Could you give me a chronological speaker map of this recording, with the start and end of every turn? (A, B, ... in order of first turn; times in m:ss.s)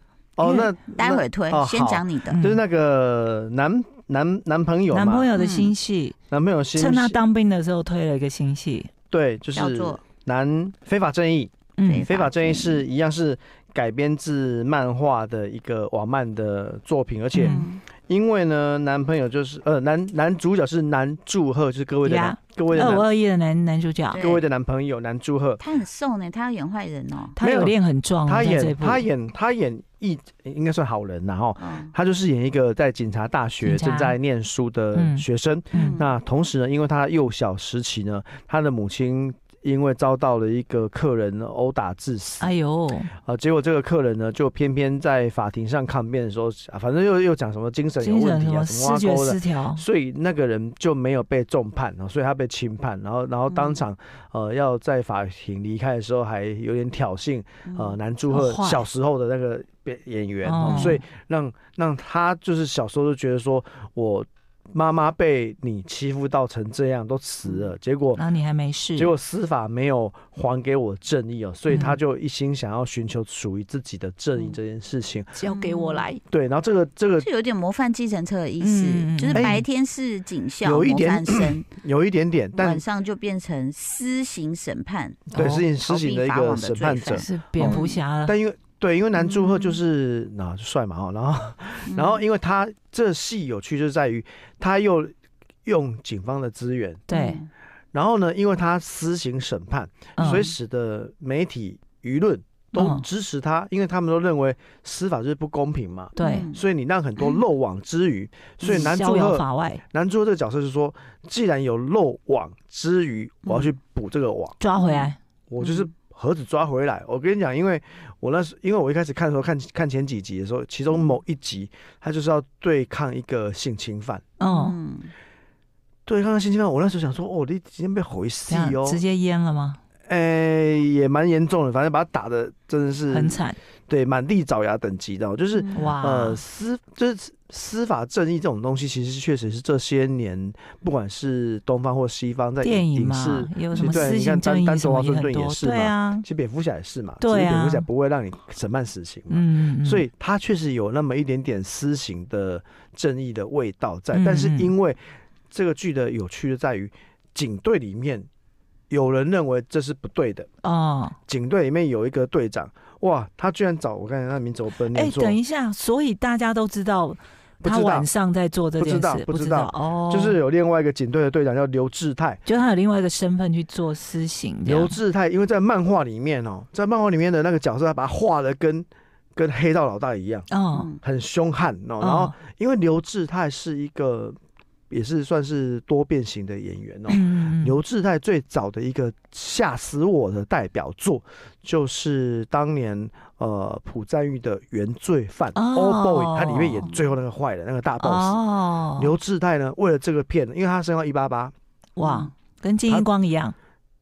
0:00.4-0:05.3 A
0:00.4-0:00.7 B
0:00.9-0:02.4 C
0:02.3-0:02.6 B
0:04.9-0:06.2 B
0:05.4-0:05.7 C
0:06.3-0:07.2 A
0:06.8-0:08.9 B
0:09.1-0:23.1 A
0:09.5-0:10.0 C
0:11.8-0:12.1 B
0:11.8-0:12.9 C
0:17.3-0:17.7 B
0:17.4-0:17.8 C
0:22.0-0:24.2 B
0:24.1-0:24.4 C
0:24.1-0:25.6 A
0:25.6-0:27.4 C
0:27.4-0:29.1 B
0:27.4-0:42.5 A
0:31.6-0:31.9 C
0:33.6-0:34.2 B
0:35.0-0:36.0 B
0:35.7-0:36.1 C
0:42.4-0:43.1 B
0:43.2-1:08.2 A
0:48.0-0:49.8 B
0:53.5-0:53.8 C
0:57.6-0:58.0 C
0:58.3-0:58.8 B
1:00.4-1:01.0 B
1:00.6-1:01.0 C
1:07.4-1:07.7 C
1:08.2-1:09.1 B
1:09.0-1:15.4 A
1:11.7-1:12.0 B
1:15.3-1:16.2 B
1:15.5-1:16.1 C
1:16.3-1:17.3 A
1:17.2-1:21.7 C
1:18.6-1:19.6 B
1:19.3-1:19.6 A
1:20.6-1:22.8 A
1:22.6-1:28.0 C
1:25.3-1:25.7 B
1:25.3-1:35.1 A
1:27.1-1:28.4 B
1:29.2-1:29.8 C
1:31.9-1:32.2 C
1:35.6-1:37.0 A
1:37.1-1:37.4 B
1:37.1-1:37.5 C
1:37.9-1:54.6 A
1:40.2-1:40.5 B
1:42.8-1:43.0 B
1:46.2-1:46.5 B
1:46.2-1:46.6 C
1:48.6-1:49.8 B
1:53.4-1:53.7 C
1:54.6-1:55.2 B
1:54.8-1:55.9 C
1:55.5-2:04.2 A
2:00.9-2:01.2 C
2:04.4-2:04.8 B
2:04.4-2:05.1 C
2:06.1-2:09.0 A
2:08.5-2:09.8 B
2:10.1-2:35.0 A
2:13.1-2:13.6 B
2:15.6-2:15.9 C
2:15.7-2:16.4 B
2:22.6-2:26.3 B
2:23.7-2:24.1 C
2:27.2-2:27.9 B
2:29.3-2:30.1 B
2:34.1-2:34.7 B
2:35.5-2:38.3 A
2:38.9-2:40.5 A
2:40.6-2:41.2 B
2:41.3-2:45.4 A
2:44.9-2:50.4 B
2:47.6-2:48.1 A
2:48.8-2:52.4 A
2:52.5-2:55.0 B
2:54.6-3:00.5 A
3:00.5-3:00.9 B
3:00.7-3:01.0 C
3:01.0-3:04.4 A
3:02.0-3:02.3 B
3:04.9-3:18.4 A
3:07.1-3:07.8 B
3:15.6-3:16.9 B
3:18.0-3:19.2 B
3:19.0-3:21.5 A
3:22.0-3:23.6 B
3:22.0-3:22.3 C